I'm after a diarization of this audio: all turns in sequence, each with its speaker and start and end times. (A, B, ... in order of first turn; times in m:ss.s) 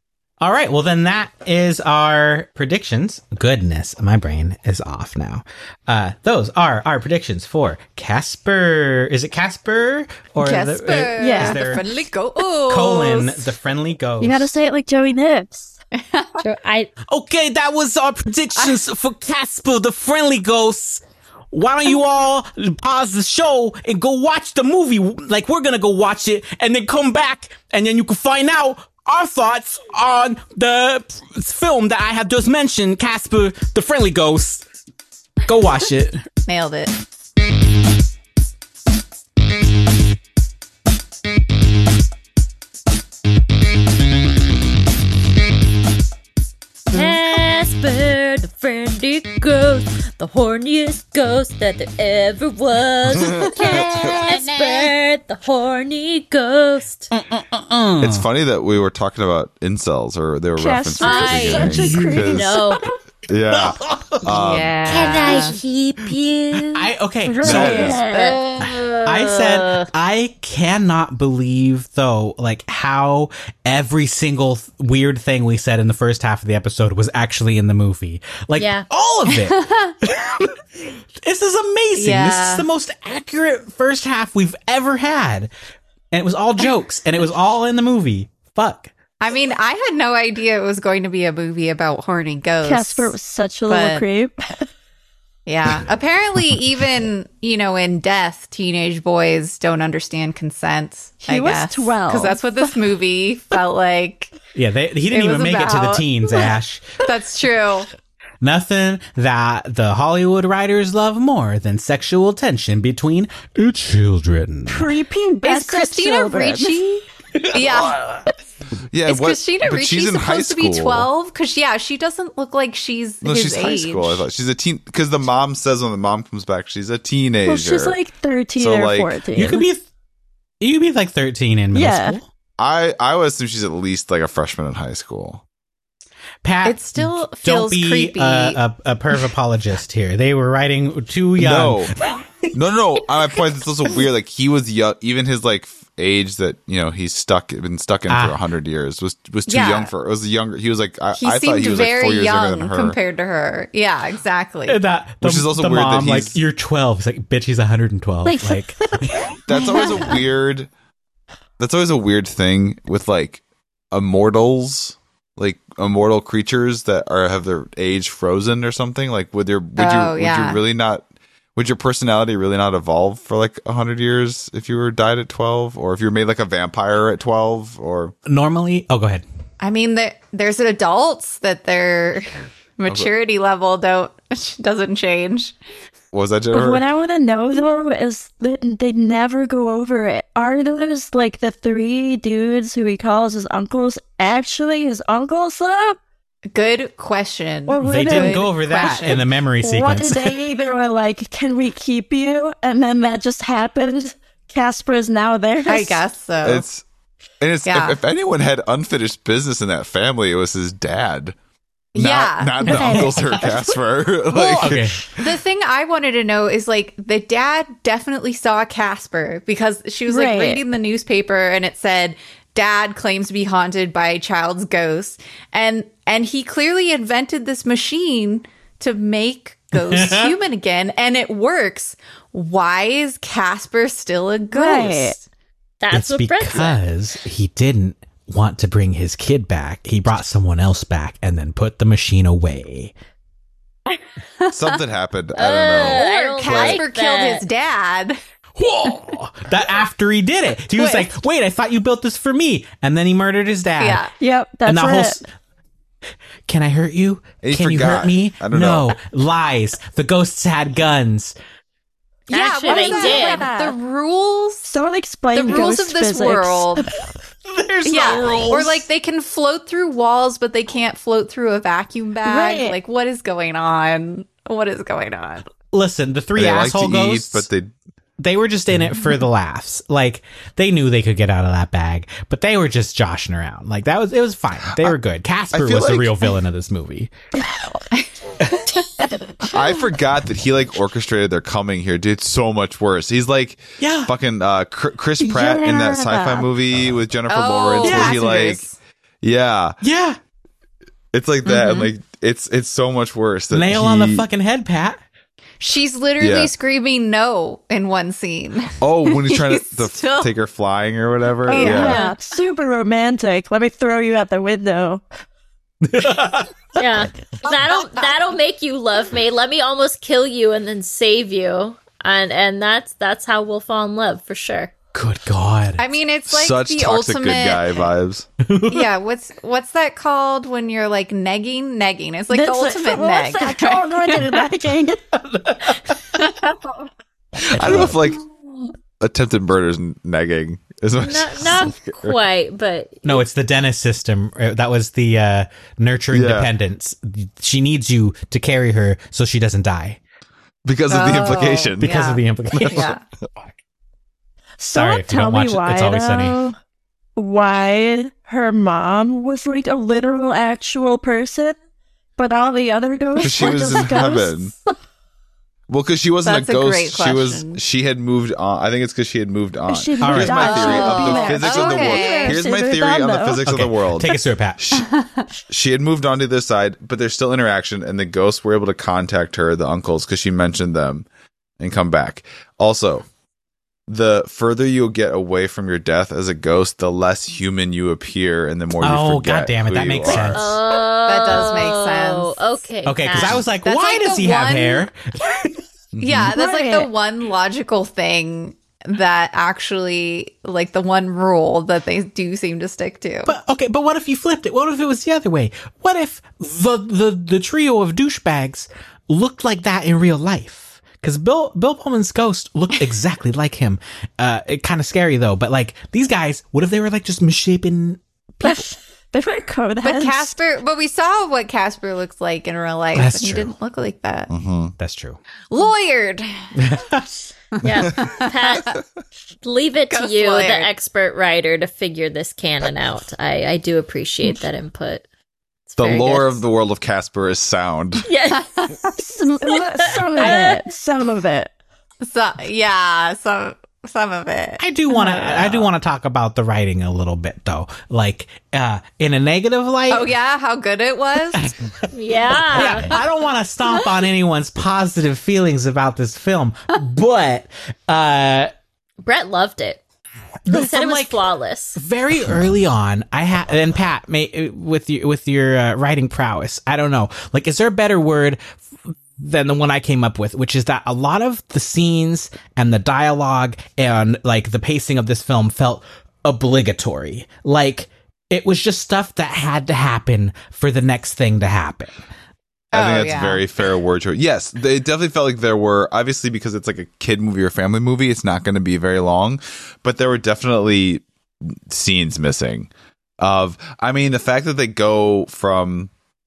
0:00.4-0:11.8 A
0:10.4-0:13.5 B
0:11.2-0:11.8 C
0:12.7-0:14.5 A
0:14.2-0:15.8 C
0:16.0-0:16.4 B
0:16.4-0:16.9 D
0:17.1-0:34.6 A
0:35.4-0:36.2 A
0:36.4-0:36.9 B
0:46.9-0:57.1 D
0:53.4-0:54.6 B
0:57.3-0:58.2 A
0:58.0-1:02.6 E
1:00.6-1:02.6 C
1:01.0-1:02.8 D
1:01.8-1:02.2 A
1:03.3-1:05.0 E
1:03.5-1:04.3 A
1:04.3-1:05.6 B
1:04.8-1:06.9 D
1:06.6-1:08.0 A
1:07.3-1:08.1 C
1:07.4-1:08.0 E
1:07.5-1:08.6 B
1:07.5-1:09.9 D
1:08.6-1:25.5 A
1:18.6-1:18.8 D
1:19.4-1:19.9 B
1:21.9-1:22.6 B
1:26.1-1:28.9 A
1:29.2-1:33.2 B
1:32.6-1:34.7 C
1:33.7-1:34.0 B
1:35.4-1:44.3 B
1:41.2-1:42.8 C
1:44.5-1:47.0 A
1:45.1-1:47.9 B
1:48.4-1:54.9 A
1:54.7-1:56.8 C
1:55.4-1:58.0 B
1:57.5-1:58.2 A
1:58.9-2:01.1 E
1:59.0-2:04.2 B
2:03.2-2:08.0 E
2:07.4-2:09.6 C
2:08.6-2:09.2 E
2:09.3-2:09.8 A
2:10.6-2:12.2 A
2:11.7-2:12.2 C
2:12.6-2:15.4 E
2:16.4-2:22.2 A
2:16.6-2:18.6 B
2:21.4-2:21.9 E
2:22.5-2:33.0 E
2:28.1-2:28.4 A
2:29.5-2:29.9 B
2:31.2-2:34.8 B
2:34.7-2:39.3 A
2:35.2-2:36.4 E
2:38.2-2:39.9 C
2:39.4-2:40.7 E
2:41.6-2:43.4 E
2:43.9-2:51.0 E
2:49.8-2:50.6 B
2:51.5-2:58.1 E
2:58.2-2:59.2 A
2:59.6-3:05.5 B
3:06.1-3:06.8 E
3:06.5-3:16.0 C
3:16.5-3:19.2 B
3:17.7-3:26.0 C
3:17.8-3:20.4 A
3:25.6-3:26.6 B
3:26.4-3:26.8 E
3:27.4-3:31.3 E
3:27.6-3:28.0 B
3:31.9-3:33.0 B
3:31.9-3:35.2 E
3:32.6-3:33.4 A
3:32.7-3:33.0 C
3:34.3-3:55.2 B
3:34.6-3:35.0 A
3:40.1-3:40.6 C
3:49.7-3:50.3 A
3:54.5-3:55.2 C
3:55.8-3:56.8 D
3:55.9-4:02.9 A
4:04.5-4:06.8 E
4:05.4-4:07.4 D
4:05.8-4:08.2 B
4:08.6-4:14.0 A
4:10.8-4:11.1 C
4:13.8-4:14.1 B
4:14.2-4:15.2 C
4:14.6-4:15.2 A
4:16.5-4:21.4 A
4:17.4-4:19.0 E
4:22.3-4:24.6 B
4:22.3-4:23.5 D
4:22.6-4:23.8 C
4:24.6-4:27.0 C
4:25.3-4:26.9 B
4:27.5-4:28.8 A
4:27.9-4:35.5 B
4:28.1-4:28.4 C
4:32.2-4:32.8 C
4:35.7-4:37.5 A
4:36.4-4:37.7 E
4:38.2-4:47.1 A
4:45.5-4:46.1 E
4:49.1-4:49.5 C
4:49.5-4:58.6 E
4:53.8-4:54.1 A
4:55.2-4:56.5 C
4:57.3-4:58.8 B
4:57.8-4:58.2 C
4:59.2-4:59.8 E
4:59.8-5:00.2 A
5:01.1-5:04.2 E
5:01.4-5:01.9 B
5:03.5-5:05.0 A
5:05.6-5:10.3 B
5:06.2-5:06.5 E
5:08.8-5:12.0 E
5:11.5-5:15.0 C
5:11.5-5:12.1 B
5:15.8-5:16.5 A
5:16.7-5:24.7 D
5:17.4-5:18.1 B
5:24.9-5:25.8 A
5:25.8-5:27.8 B
5:26.3-5:28.3 E
5:28.4-5:28.9 A
5:28.7-5:34.3 B
5:32.3-5:35.0 C
5:35.1-5:35.9 A
5:37.5-5:38.2 E
5:37.5-5:38.0 A
5:39.0-5:42.2 E
5:41.0-5:43.2 D
5:43.0-5:50.0 A
5:46.1-5:46.5 E
5:50.6-5:51.9 E
5:50.9-5:53.0 B
5:51.8-5:52.9 A
5:52.5-5:52.9 E
5:54.6-5:56.5 C
5:54.7-5:56.4 A
5:57.2-6:01.6 C
6:02.2-6:04.5 C
6:03.2-6:04.5 E
6:05.7-6:14.9 E
6:06.2-6:07.6 B
6:09.7-6:13.4 C
6:10.0-6:10.6 A
6:10.4-6:12.4 B
6:13.4-6:14.6 A
6:14.8-6:15.3 B
6:15.5-6:21.0 E
6:21.6-6:23.0 E
6:23.9-6:30.5 E
6:28.8-6:30.6 A
6:30.1-6:33.4 D
6:31.0-6:32.4 B
6:32.8-6:35.6 A
6:33.6-6:34.9 B
6:35.9-6:36.3 E
6:36.0-6:43.3 B
6:36.3-6:36.9 C
6:43.2-6:58.6 A
6:58.4-7:00.4 C
6:59.8-7:04.3 B
7:02.9-7:03.5 A
7:04.3-7:04.7 E
7:04.8-7:05.2 A
7:05.5-7:06.3 B
7:06.6-7:07.1 A
7:07.6-7:08.8 D
7:07.9-7:08.8 B
7:09.4-7:15.0 D
7:09.9-7:10.7 B
7:15.7-7:16.4 D
7:15.8-7:18.1 E
7:18.0-7:18.9 D
7:18.3-7:18.9 B
7:18.9-7:21.5 C
7:19.5-7:20.6 D
7:22.0-7:25.5 B
7:24.6-7:30.1 A
7:29.9-7:31.5 B
7:31.3-7:31.9 A
7:31.9-7:33.0 D
7:32.5-7:38.5 A
7:39.0-7:39.8 D
7:40.4-7:41.2 A
7:40.5-7:41.8 D
7:41.8-8:02.0 A
8:02.7-8:03.4 B
8:02.7-8:15.9 E